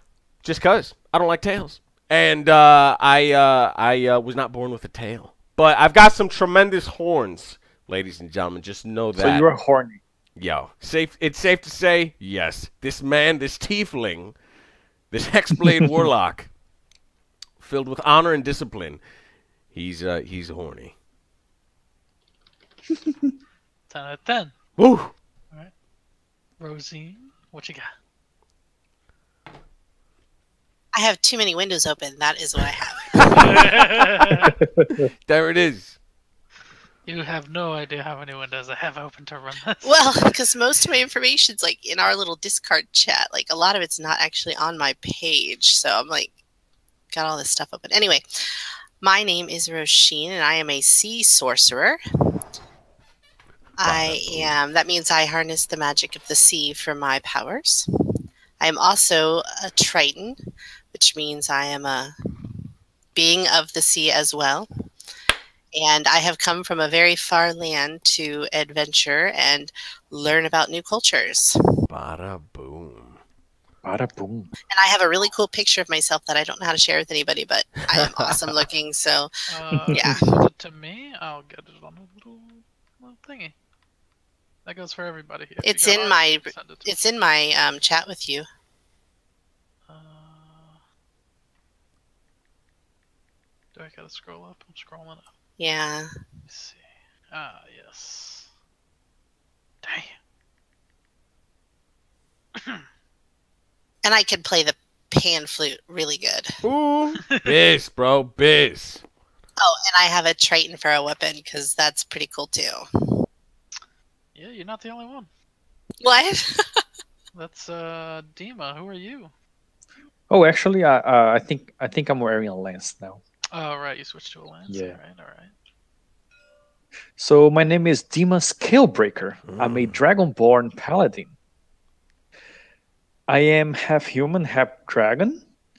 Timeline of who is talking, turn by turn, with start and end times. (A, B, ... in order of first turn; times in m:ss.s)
0:00.4-0:09.5 A
0:09.2-0:10.0 B
0:10.4-0:14.4 A
0:15.1-0:16.5 A
0:17.6-0:19.0 A
0:19.7-0:20.9 A
0:23.0-0:23.3 B
0:23.9-0:24.6 C
0:24.8-0:25.1 A
0:26.6-0:27.9 C
0:30.9-0:33.7 D
0:33.4-0:34.5 C
0:34.4-0:35.1 B
0:35.2-0:36.0 A
0:37.0-0:40.4 C
0:39.8-0:46.3 D
0:47.1-0:48.2 D
0:49.0-0:52.0 D
0:53.8-0:57.9 D
0:53.8-0:54.6 A
0:58.6-1:00.4 D
1:00.9-1:02.1 D
1:03.1-1:04.7 D
1:05.8-1:11.5 D
1:11.9-1:13.2 A
1:13.8-1:14.5 B
1:14.7-1:19.3 D
1:17.9-1:18.6 A
1:19.5-1:23.5 C
1:19.7-1:20.2 B
1:19.9-1:20.2 D
1:24.6-1:27.0 C
1:25.6-1:28.5 D
1:29.9-1:30.8 C
1:33.8-1:35.3 C
1:35.6-1:36.1 D
1:36.5-1:38.5 C
1:39.8-1:40.2 C
1:42.6-1:42.9 C
1:44.0-1:46.5 D
1:46.6-1:49.0 A
1:49.6-1:52.8 D
1:54.4-1:55.3 C
1:56.0-1:56.8 D
1:57.3-1:59.3 C
2:00.3-2:03.2 B
2:03.5-2:05.5 C
2:04.7-2:05.0 B
2:07.2-2:11.3 B
2:09.5-2:10.0 A
2:13.3-2:15.4 B